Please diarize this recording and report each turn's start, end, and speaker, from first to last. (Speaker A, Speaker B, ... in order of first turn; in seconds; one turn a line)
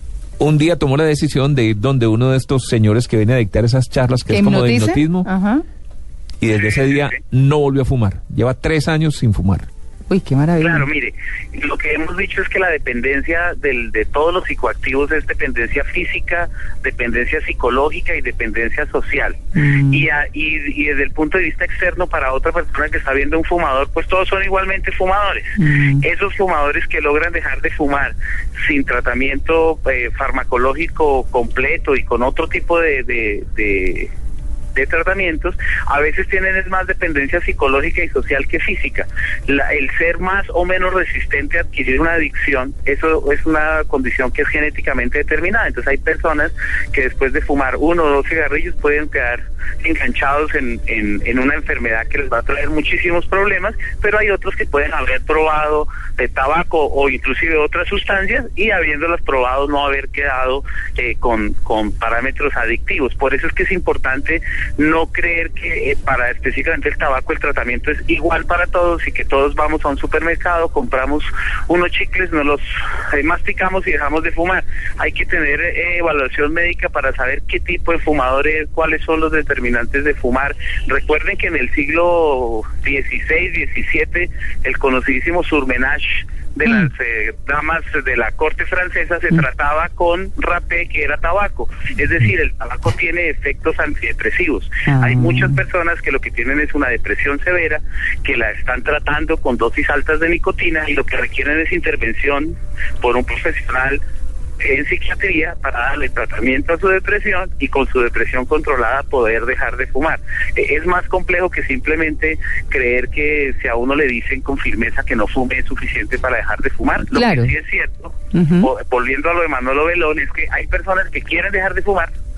Speaker A: 0.4-5.3
Speaker B: 4.3-5.6
Speaker A: 6.4-9.7
Speaker C: 6.5-7.2
Speaker B: 10.1-10.9
Speaker C: 10.6-19.4
Speaker B: 19.6-20.1
Speaker C: 19.9-34.1
Speaker B: 25.6-26.0
Speaker C: 34.8-104.0
Speaker B: 86.7-86.9
Speaker B: 94.9-95.6
Speaker C: 104.6-122.1
Speaker B: 117.1-117.5
Speaker B: 118.3-118.7